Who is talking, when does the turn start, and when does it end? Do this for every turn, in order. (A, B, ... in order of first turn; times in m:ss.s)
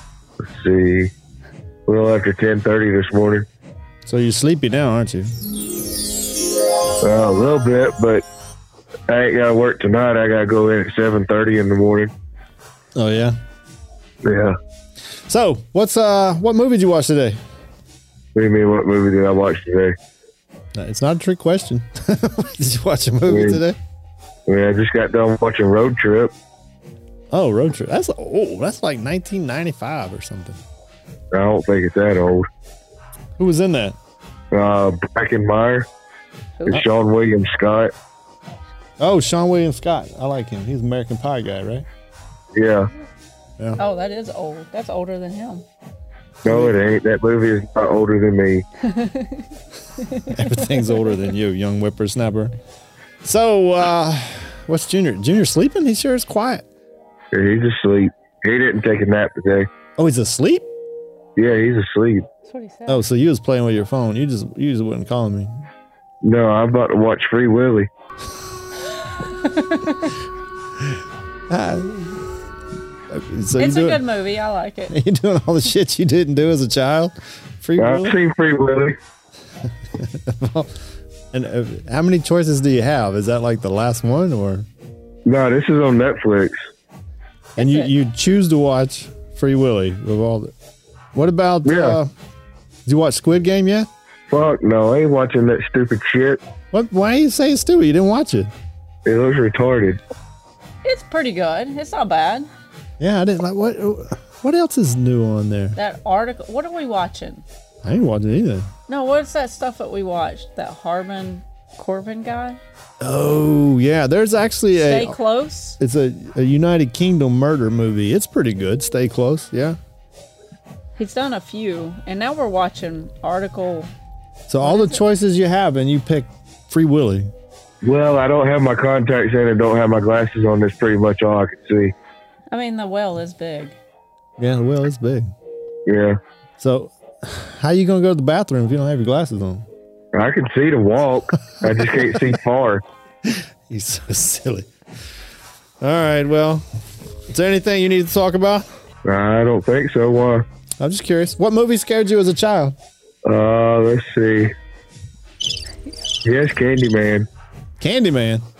0:00.4-0:01.1 A
0:01.9-0:03.5 A
0:04.0-0:05.3 B
0:07.0-0:08.2 A
0:09.1-0:12.1 A
0:12.9-0:13.4 B
0:14.2-0:14.6 A
0:15.3-0:17.4 B
0:18.3-0:20.0 A
0:20.7-0:23.8 B
0:23.3-0:23.6 A
0:24.5-0:26.3 A
0:27.3-0:30.6 B
0:31.3-0:32.5 A
0:33.4-0:34.0 B
0:34.5-0:35.9 A
0:36.6-0:36.8 C
0:36.7-0:37.9 A
0:39.0-0:41.9 B
0:42.5-0:42.9 A
0:43.8-0:45.6 C
0:46.4-0:46.7 B
0:46.4-0:48.6 A
0:48.8-0:51.0 C
0:50.2-0:52.5 B
0:53.2-0:56.6 B
0:57.3-0:59.7 A
1:00.0-1:00.6 B
1:01.4-1:02.3 A
1:02.4-1:03.0 C
1:02.9-1:05.6 B
1:06.2-1:07.9 A
1:09.2-1:10.1 C
1:10.8-1:12.3 B
1:13.1-1:14.0 B
1:13.6-1:14.9 C
1:14.9-1:18.2 B
1:17.8-1:19.0 A
1:19.9-1:20.8 B
1:21.3-1:24.7 B
1:25.2-1:26.5 A
1:27.6-1:27.9 C
1:27.6-1:30.5 B
1:31.1-1:32.1 B
1:31.6-1:32.0 A
1:32.8-1:33.9 B
1:34.3-1:36.4 A
1:36.7-1:38.5 B
1:39.0-1:40.0 A
1:40.8-1:42.5 C
1:43.0-1:45.8 B
1:45.8-1:47.4 C
1:47.8-1:48.7 B
1:48.9-1:52.6 C
1:53.0-1:55.2 B
1:54.7-1:55.8 C
1:55.8-1:59.8 B
2:01.0-2:03.9 C
2:04.5-2:07.3 B
2:04.6-2:05.0 C
2:07.8-2:11.9 A
2:12.5-2:13.8 C
2:14.4-2:15.3 B
2:15.8-2:16.2 A
2:16.6-2:19.6 B
2:20.1-2:22.8 A
2:21.7-2:22.2 B
2:23.2-2:24.7 B
2:25.8-2:26.6 B
2:27.3-2:28.6 B
2:29.0-2:30.4 A
2:30.8-2:32.8 B
2:33.2-2:34.5 A
2:36.2-2:37.3 A
2:37.8-2:38.4 B